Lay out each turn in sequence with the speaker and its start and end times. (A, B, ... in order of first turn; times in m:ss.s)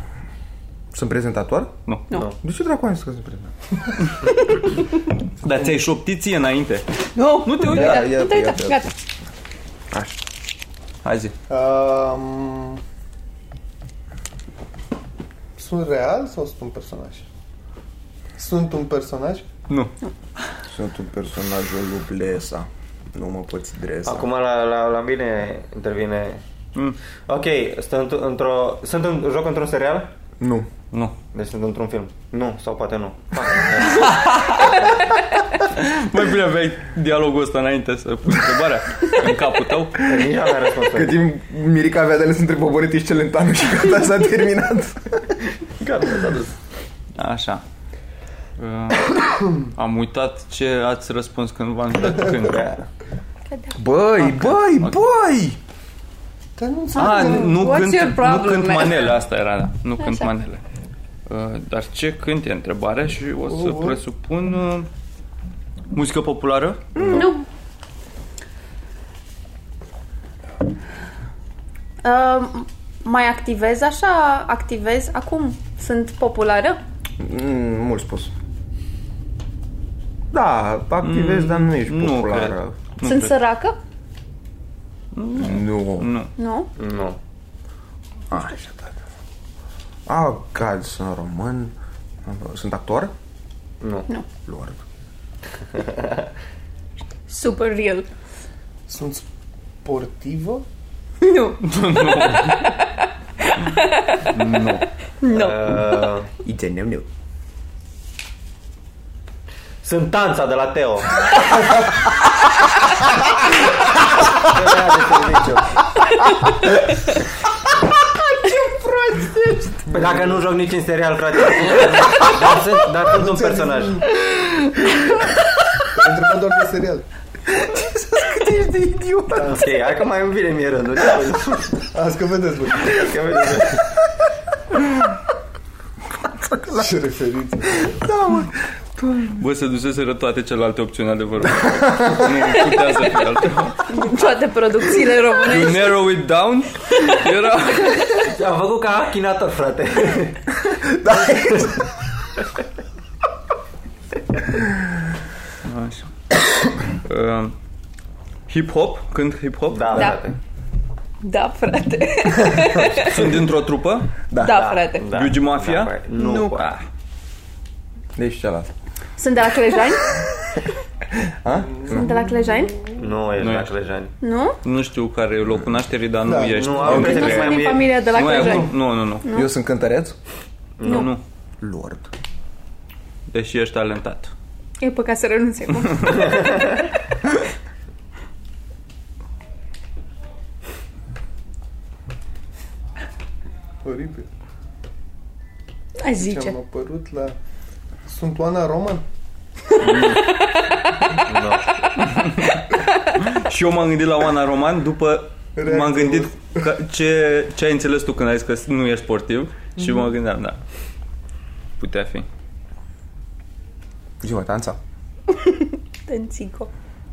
0:00.9-0:01.7 A
0:02.4-0:03.5 A
0:05.4-0:06.8 B
0:07.2-0:08.9 C
0:07.4-0:08.1 B
0:07.6-0:08.9 A
0:09.9-0:10.2 A
0:11.0-0:11.3 B
0:11.5-0:12.8 D
0:15.6-0:17.2 D
0:18.4-0:19.5 D
0:20.7-0:24.3 A
0:24.0-0:26.4 E
0:27.3-0:30.1 E
0:30.4-0:30.7 A
0:31.3-0:35.0 E
0:34.0-0:34.8 B
0:35.6-0:40.1 B
0:40.0-0:41.1 E
0:40.9-0:45.4 A
0:45.8-0:46.5 E
0:47.2-0:47.6 B
0:48.6-0:52.7 B
0:52.4-0:52.8 E
0:53.5-0:53.8 C
0:53.7-0:55.6 A
0:54.2-0:55.0 B
0:56.6-0:57.8 D
0:56.9-0:59.2 C
0:57.0-1:00.6 B
1:00.0-1:00.4 C
1:01.3-1:04.9 B
1:03.4-1:04.0 D
1:05.9-1:07.1 B
1:07.0-1:07.3 A
1:07.1-1:07.4 C
1:12.0-1:16.8 C
1:17.2-1:18.3 A
1:20.3-1:22.7 A
1:21.0-1:23.4 B
1:23.0-1:23.8 C
1:25.1-1:26.3 B
1:25.4-1:26.1 A
1:26.4-1:26.7 C
1:26.8-1:27.2 E
1:28.3-1:28.8 A
1:30.0-1:33.1 A
1:33.8-1:34.1 E
1:34.4-1:34.8 A
1:35.7-1:36.2 E
1:37.3-1:38.1 C
1:38.9-1:39.2 D
1:39.8-1:40.6 D
1:41.2-1:42.9 C
1:41.6-1:42.7 B
1:43.5-1:44.3 C
1:44.2-1:44.8 B
1:45.2-1:46.0 C
1:45.3-1:46.3 E
1:46.4-1:47.1 A
1:49.8-1:51.4 E
1:54.4-1:55.8 E
1:58.4-1:59.8 A
1:59.9-2:00.4 D
1:59.9-2:04.0 E
2:03.1-2:04.0 D
2:05.9-2:07.0 D
2:07.5-2:09.6 A
2:09.4-2:11.8 E
2:11.9-2:13.1 D
2:12.8-2:13.8 E
2:16.2-2:16.9 A
2:16.7-2:18.0 D
2:17.8-2:19.4 A
2:19.3-2:23.8 B
2:21.6-2:22.3 A
2:22.5-2:22.9 C
2:23.9-2:26.0 C
2:25.4-2:28.1 B
2:28.0-2:30.6 E
2:30.8-2:31.8 A
2:31.2-2:31.7 E
2:35.6-2:36.1 B
2:37.0-2:37.5 B
2:38.5-2:40.1 B
2:39.7-2:40.4 E
2:39.9-2:40.2 C
2:41.2-2:43.3 C
2:42.5-2:42.8 A
2:42.9-2:44.1 B
2:44.3-2:44.6 A
2:44.4-2:45.1 C
2:44.4-2:46.7 E
2:45.1-2:46.8 B
2:46.2-2:46.6 C
2:48.2-2:48.7 A
2:49.2-2:50.2 C
2:51.1-2:52.1 A
2:51.5-2:52.7 D
2:51.9-2:52.8 C
2:53.0-2:54.1 E
2:53.4-2:53.7 B
2:54.2-2:54.6 C
2:54.6-2:59.2 B
2:56.2-2:56.9 D
2:56.5-2:58.7 E
2:56.8-2:59.5 C
2:56.8-2:57.4 A
2:59.3-3:00.2 A
3:00.8-3:01.1 E
3:00.8-3:01.2 B
3:00.8-3:01.1 C
3:01.6-3:02.1 A
3:03.3-3:04.3 B
3:04.8-3:06.6 C
3:13.8-3:14.3 D
3:16.0-3:16.6 C
3:16.2-3:17.4 D
3:18.0-3:19.0 D
3:19.8-3:20.2 B
3:20.0-3:20.7 C
3:21.2-3:21.7 E
3:22.0-3:22.6 B
3:23.2-3:30.6 B
3:25.6-3:26.6 D
3:31.8-3:32.3 B
3:34.2-3:34.8 A
3:35.3-3:36.7 C